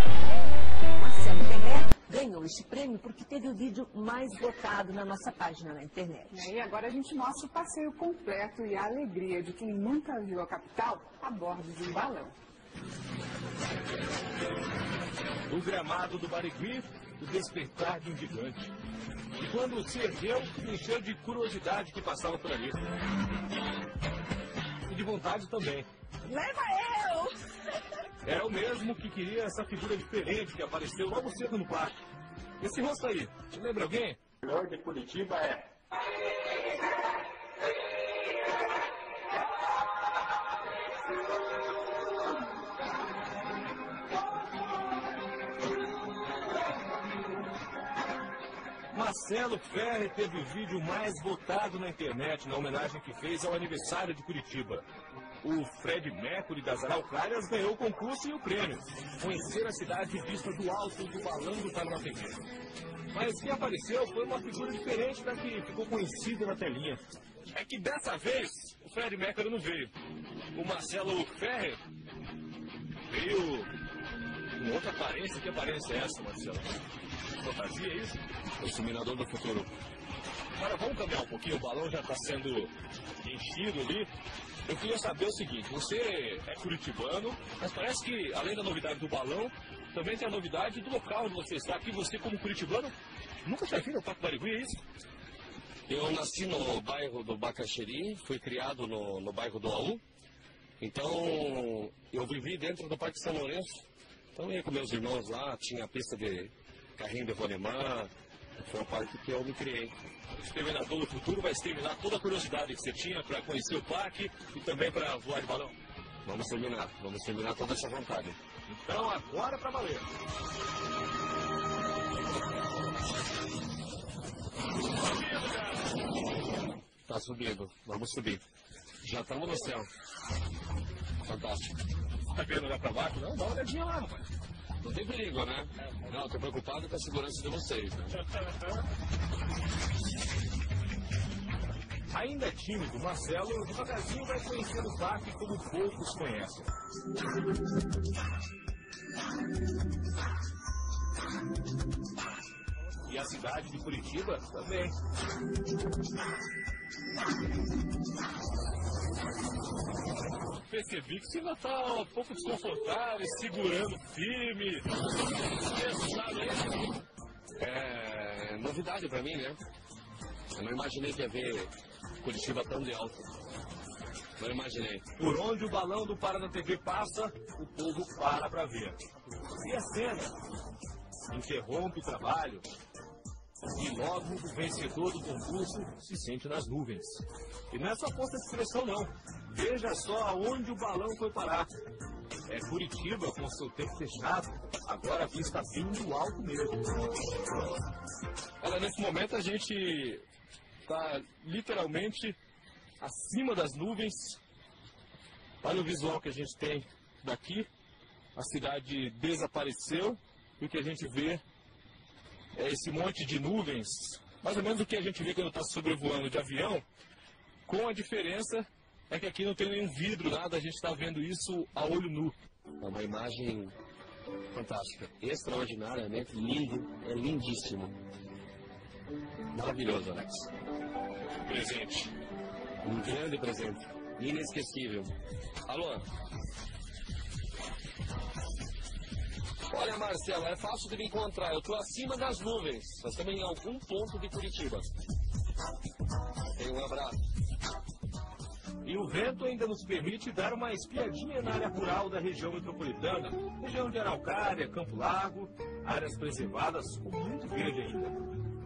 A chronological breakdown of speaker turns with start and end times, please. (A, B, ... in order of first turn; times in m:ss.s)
0:01.0-0:06.3 A
0:06.3-0:12.3 B
0:15.5-0:18.7 C
0:19.4-0:22.8 C
0:24.9-0:25.9 C
0:26.3-0:27.4 A
0:28.2-0:32.0 C
0:32.6-0:35.6 C
0:48.9-0:54.8 C
0:55.4-1:02.4 C
1:03.1-1:07.0 C
1:07.5-1:09.9 C
1:10.6-1:11.8 C
1:13.1-1:13.7 C
1:14.6-1:16.7 C
1:17.4-1:18.2 C
1:18.6-1:19.7 D
1:20.6-1:24.1 C
1:24.7-1:34.8 C
1:35.9-1:40.0 D
1:40.8-1:43.8 D
1:44.4-1:48.1 D
1:48.6-1:49.9 D
1:50.4-1:55.8 C
1:56.2-1:58.4 D
1:58.7-2:00.1 C
2:05.0-2:05.8 C
2:07.1-2:08.4 D
2:09.0-2:09.9 D
2:11.3-2:11.7 D
2:12.3-2:14.2 C
2:14.8-2:18.2 D
2:22.1-2:26.7 C
2:33.1-2:35.0 C
2:40.6-2:44.9 C
2:45.7-2:46.9 C
2:47.6-2:49.6 D
2:50.6-2:53.3 D
2:54.4-2:55.1 D
2:55.2-2:59.0 C
2:59.6-3:00.3 C
3:01.3-3:02.7 C
3:03.7-3:11.7 C
3:12.5-3:17.7 C
3:18.6-3:20.2 C
3:20.8-3:22.4 C
3:23.0-3:24.4 C
3:25.6-3:27.7 C
3:28.4-3:31.4 C
3:32.5-3:36.8 C
3:37.7-3:42.4 C
3:42.8-3:43.7 D
3:44.5-3:48.0 D
3:49.5-3:50.5 D
3:51.5-3:52.1 C
3:52.8-3:55.1 D
3:55.7-3:56.0 D
3:59.7-4:04.9 D
4:06.6-4:07.2 D
4:08.8-4:18.2 C